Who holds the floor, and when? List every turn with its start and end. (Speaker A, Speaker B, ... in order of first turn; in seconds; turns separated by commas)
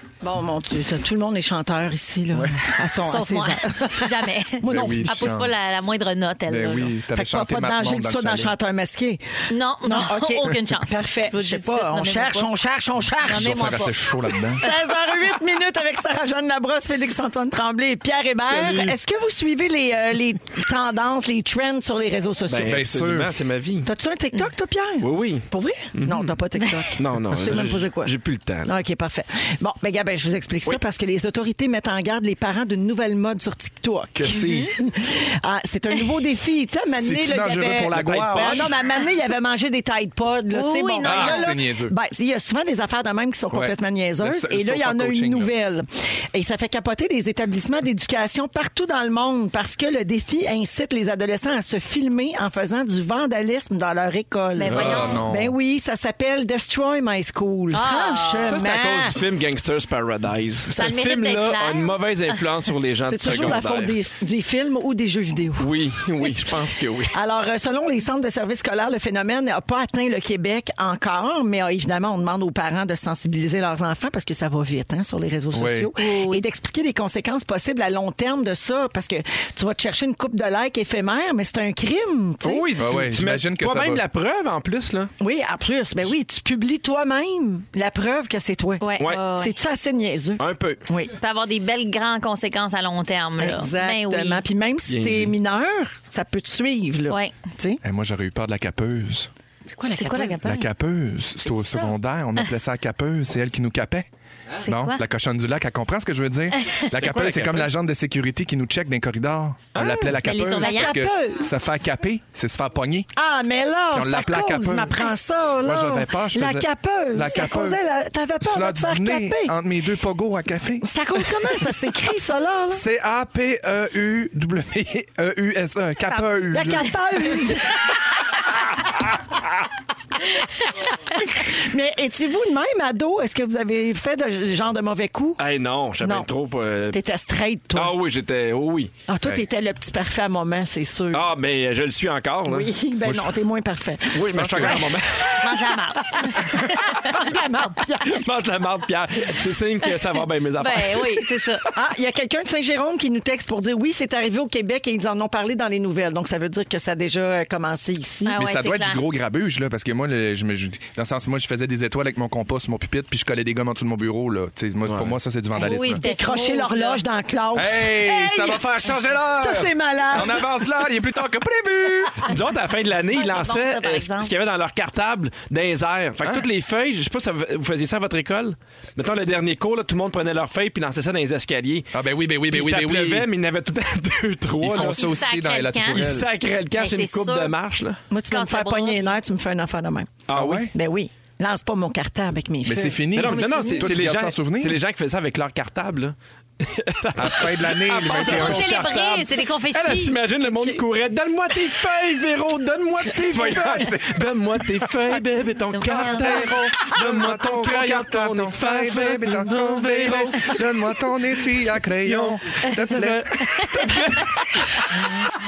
Speaker A: 0.2-5.3, Speaker B: 2.3-2.8, Speaker C: 3.0-6.9, Speaker B: 4.6-5.5, Speaker B: 6.5-8.5, Speaker A: 7.1-9.2, Speaker C: 9.5-12.5, Speaker A: 9.8-13.9, Speaker C: 13.2-14.8, Speaker B: 13.3-14.6, Speaker A: 14.6-22.8, Speaker D: 18.4-19.0, Speaker D: 22.5-23.9, Speaker B: 22.6-23.3, Speaker A: 23.8-59.2, Speaker D: 25.0-26.4, Speaker D: 26.9-28.7, Speaker B: 34.1-34.8, Speaker B: 36.9-38.8, Speaker D: 37.9-38.7, Speaker C: 40.5-41.5, Speaker B: 41.0-41.9, Speaker B: 43.5-45.5, Speaker C: 54.5-55.2, Speaker B: 54.6-55.5, Speaker C: 57.7-58.5, Speaker D: 58.4-64.0, Speaker C: 60.7-61.9, Speaker A: 63.1-65.7, Speaker D: 65.6-67.1, Speaker A: 67.1-82.7, Speaker B: 75.5-75.9, Speaker C: 76.0-76.4, Speaker D: 82.4-85.1, Speaker B: 82.8-84.0, Speaker A: 85.2-91.1, Speaker C: 88.8-89.5, Speaker D: 89.0-89.2, Speaker D: 90.4-90.8, Speaker C: 91.1-94.4, Speaker A: 93.4-97.8, Speaker D: 94.9-95.3, Speaker B: 97.8-99.3, Speaker A: 99.7-100.4, Speaker C: 99.9-100.7, Speaker B: 100.4-104.1, Speaker C: 104.6-105.0, Speaker B: 104.6-113.1, Speaker D: 106.9-107.7, Speaker D: 109.7-110.2, Speaker C: 110.2-111.0, Speaker A: 110.6-111.5, Speaker A: 113.2-119.5, Speaker B: 113.9-117.8, Speaker B: 118.4-121.4, Speaker A: 120.8-122.8, Speaker B: 122.7-126.9, Speaker C: 126.0-126.8, Speaker A: 126.5-127.9, Speaker A: 131.2-135.4, Speaker D: 135.4-137.0, Speaker A: 136.0-136.3, Speaker A: 136.9-137.9, Speaker D: 137.7-138.9, Speaker A: 139.1-141.3, Speaker D: 141.1-142.7, Speaker A: 142.5-145.0, Speaker B: 143.0-143.4, Speaker D: 144.1-145.6, Speaker B: 144.3-144.9, Speaker C: 145.3-147.3, Speaker A: 146.1-148.2, Speaker D: 148.0-151.2, Speaker C: 150.6-151.7, Speaker A: 151.7-158.4, Speaker C: 158.2-159.0, Speaker B: 158.3-166.0, Speaker D: 164.8-165.1, Speaker C: 165.5-167.0, Speaker A: 166.0-170.4, Speaker B: 167.5-172.3, Speaker D: 172.2-181.9, Speaker C: 173.1-174.3, Speaker B: 181.9-183.3, Speaker D: 182.5-185.1, Speaker B: 184.6-186.3, Speaker C: 184.7-186.1, Speaker D: 185.9-188.0, Speaker C: 186.8-187.5, Speaker A: 188.1-193.0, Speaker C: 188.1-189.1, Speaker D: 190.3-190.7, Speaker B: 190.3-190.7, Speaker B: 192.6-194.8, Speaker D: 193.1-210.6, Speaker C: 193.3-193.9, Speaker B: 197.1-198.9, Speaker C: 198.1-200.8, Speaker B: 203.2-204.8, Speaker C: 205.7-206.5, Speaker B: 206.1-213.7, Speaker D: 212.0-214.9